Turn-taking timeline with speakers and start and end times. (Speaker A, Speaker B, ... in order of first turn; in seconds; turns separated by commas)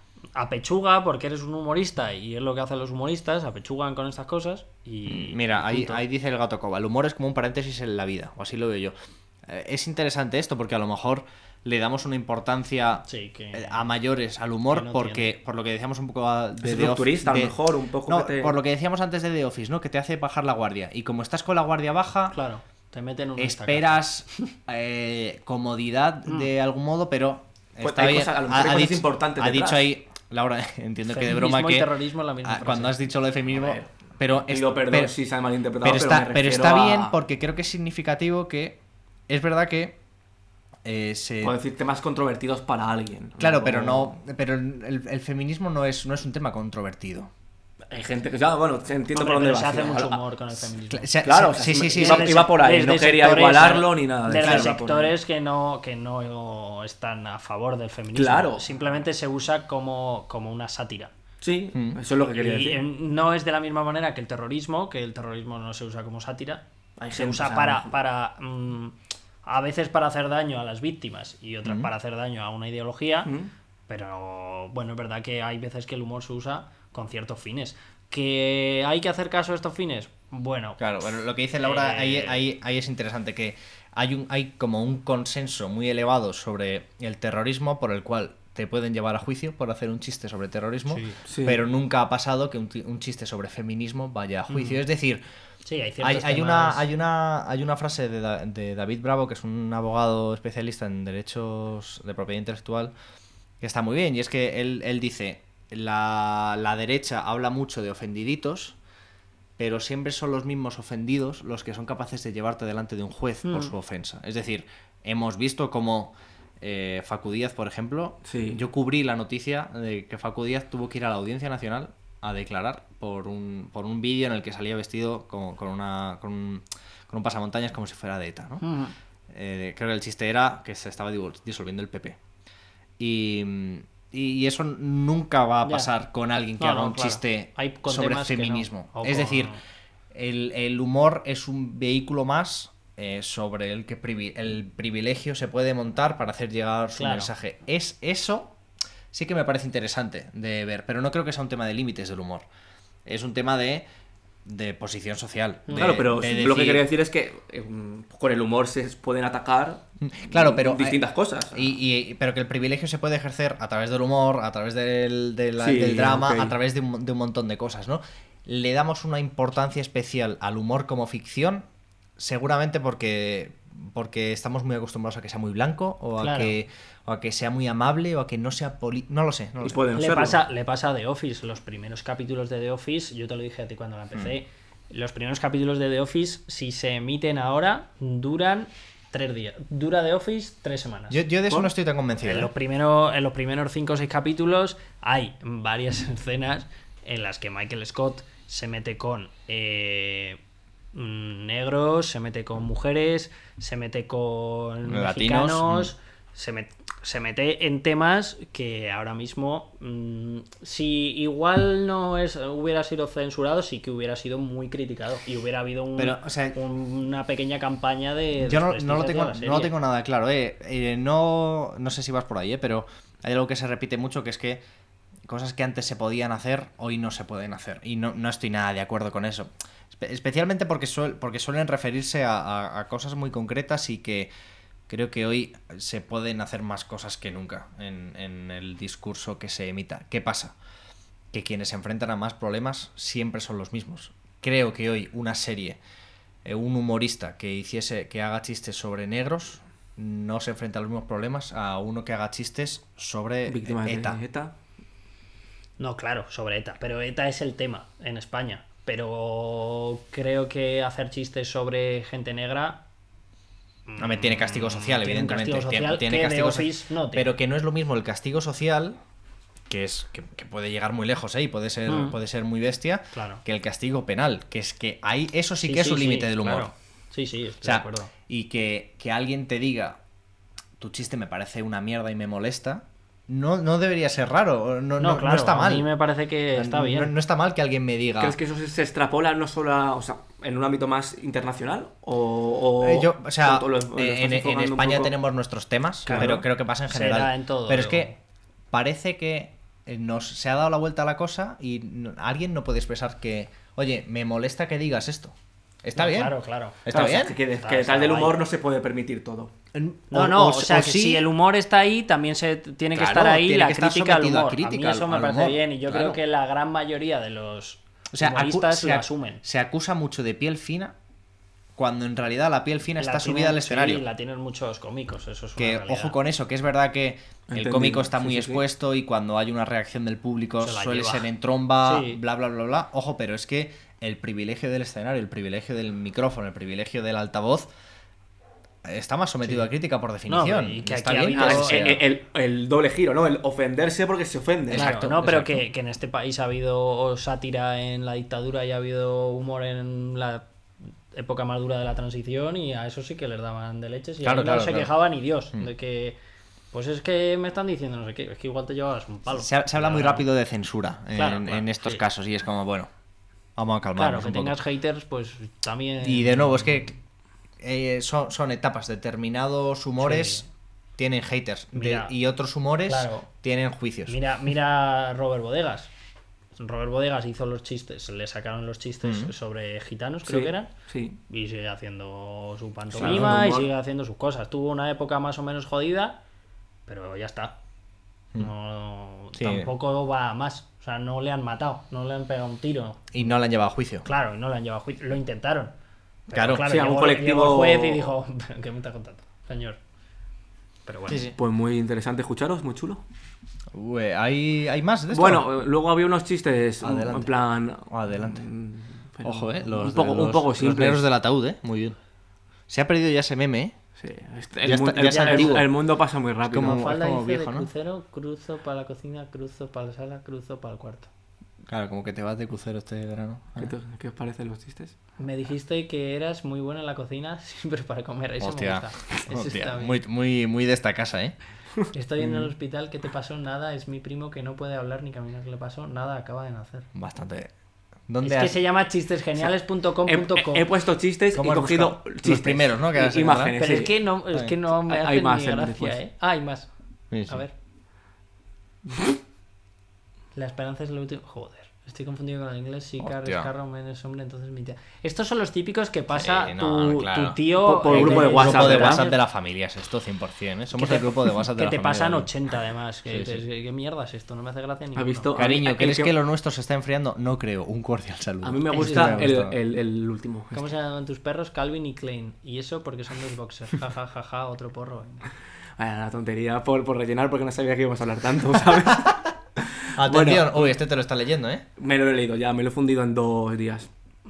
Speaker A: 0.3-6.0, Speaker B: 5.1-8.9, Speaker B: 9.5-22.4, Speaker A: 13.1-13.8, Speaker A: 14.7-15.3, Speaker C: 16.6-18.6, Speaker A: 22.3-24.5, Speaker B: 23.4-31.9, Speaker C: 27.8-29.9, Speaker A: 31.1-33.0, Speaker B: 32.4-35.1, Speaker C: 33.5-33.9, Speaker C: 34.5-37.2, Speaker B: 35.8-40.0, Speaker B: 40.8-41.6, Speaker C: 41.4-44.2, Speaker B: 43.4-47.3, Speaker C: 47.9-50.2, Speaker A: 49.1-51.1, Speaker B: 50.9-52.5, Speaker C: 51.2-55.1, Speaker A: 51.9-61.1, Speaker B: 54.4-54.8, Speaker C: 58.1-58.7, Speaker C: 61.4-62.8, Speaker B: 61.7-62.0, Speaker A: 62.3-73.3, Speaker C: 67.0-67.9, Speaker C: 73.2-73.5, Speaker A: 73.9-80.8, Speaker B: 80.8-95.2, Speaker A: 81.6-82.4, Speaker A: 90.9-91.2, Speaker C: 91.3-91.6, Speaker A: 95.7-96.9, Speaker B: 96.0-102.9, Speaker B: 103.6-108.8, Speaker B: 109.6-128.7, Speaker A: 113.5-113.7, Speaker C: 118.2-118.6, Speaker A: 128.6-128.9, Speaker B: 129.3-132.2, Speaker B: 133.0-139.5, Speaker A: 135.6-135.9, Speaker A: 136.6-139.6, Speaker B: 140.1-148.6, Speaker A: 146.9-147.3, Speaker B: 149.1-152.4, Speaker B: 153.1-153.9, Speaker B: 154.4-156.9, Speaker A: 155.7-156.0, Speaker C: 155.7-161.6, Speaker B: 160.0-161.0, Speaker B: 161.5-171.7, Speaker C: 165.6-166.6, Speaker B: 172.2-179.8, Speaker A: 176.2-176.5, Speaker C: 179.6-180.4, Speaker A: 180.0-191.2, Speaker B: 191.1-192.5, Speaker A: 192.2-200.4, Speaker A: 200.9-219.7, Speaker B: 204.9-205.9, Speaker B: 216.0-216.6, Speaker B: 218.4-224.6, Speaker B: 225.3-234.3, Speaker B: 234.9-240.6, Speaker B: 241.3-245.8, Speaker B: 246.4-254.2, Speaker C: 253.5-254.6, Speaker A: 255.8-262.8, Speaker A: 263.9-267.3, Speaker B: 264.0-269.0, Speaker B: 269.7-276.7, Speaker A: 271.9-272.2, Speaker A: 273.1-273.4, Speaker A: 275.6-278.1, Speaker B: 277.6-280.0, Speaker B: 280.8-285.9, Speaker A: 285.0-287.1, Speaker B: 286.6-288.4, Speaker C: 288.2-295.1, Speaker B: 292.8-298.1, Speaker A: 296.1-298.1, Speaker C: 296.1-296.4, Speaker B: 298.7-306.3, Speaker A: 306.0-306.8, Speaker B: 306.9-307.4, Speaker C: 306.9-309.5, Speaker A: 307.5-308.4, Speaker B: 309.7-311.2, Speaker A: 310.1-319.4, Speaker B: 312.9-316.2, Speaker B: 318.1-321.0, Speaker B: 321.8-324.1, Speaker A: 323.0-326.2, Speaker B: 325.6-337.7, Speaker C: 327.5-328.6, Speaker A: 330.6-331.3, Speaker A: 331.8-332.2, Speaker B: 338.8-342.0, Speaker A: 340.3-342.0, Speaker C: 341.3-344.9, Speaker B: 344.7-345.6, Speaker A: 344.7-350.4, Speaker A: 351.1-356.2, Speaker B: 354.2-354.9, Speaker A: 356.7-360.3, Speaker B: 359.3-362.9, Speaker A: 361.1-362.0, Speaker B: 363.6-364.6, Speaker A: 364.0-366.7, Speaker B: 366.0-366.9, Speaker B: 367.6-370.4, Speaker A: 370.0-370.5, Speaker B: 371.0-374.2, Speaker A: 371.7-372.1, Speaker A: 372.9-373.3, Speaker A: 374.1-375.9, Speaker A: 376.6-380.7, Speaker B: 379.0-379.3, Speaker C: 380.3-381.2, Speaker A: 381.3-386.2, Speaker B: 382.9-383.7, Speaker C: 383.0-383.5, Speaker A: 386.9-387.6, Speaker A: 388.4-393.1, Speaker B: 389.3-389.7, Speaker B: 393.1-394.1, Speaker A: 394.1-395.7, Speaker A: 396.3-399.8, Speaker B: 396.3-396.7, Speaker C: 396.7-398.1, Speaker A: 400.9-401.3, Speaker B: 401.1-401.4, Speaker C: 401.4-403.0, Speaker B: 403.7-405.4, Speaker C: 405.1-411.0, Speaker B: 406.8-407.3, Speaker B: 407.9-408.4, Speaker B: 409.2-412.0, Speaker B: 412.7-413.8, Speaker C: 414.0-416.9, Speaker B: 414.6-415.7, Speaker A: 415.0-415.7, Speaker B: 416.5-417.7, Speaker A: 416.6-421.1, Speaker B: 421.7-423.7, Speaker C: 423.6-424.9, Speaker A: 425.2-430.0, Speaker B: 428.4-431.4, Speaker A: 431.9-436.9, Speaker B: 432.2-432.5, Speaker B: 436.9-437.5, Speaker B: 438.1-438.6, Speaker A: 438.2-440.7, Speaker C: 440.1-444.0, Speaker B: 441.4-443.6, Speaker A: 443.6-446.7, Speaker C: 444.7-446.0, Speaker B: 447.1-447.4, Speaker A: 447.3-447.5, Speaker A: 450.4-459.2, Speaker B: 453.0-453.5, Speaker B: 456.1-462.3, Speaker C: 457.6-459.0, Speaker A: 460.8-465.3, Speaker B: 463.1-463.4, Speaker C: 465.0-466.1, Speaker B: 465.4-469.6, Speaker C: 468.4-470.6, Speaker A: 468.7-469.3, Speaker A: 470.5-475.3, Speaker C: 475.8-480.8, Speaker B: 480.0-481.6, Speaker C: 481.8-483.9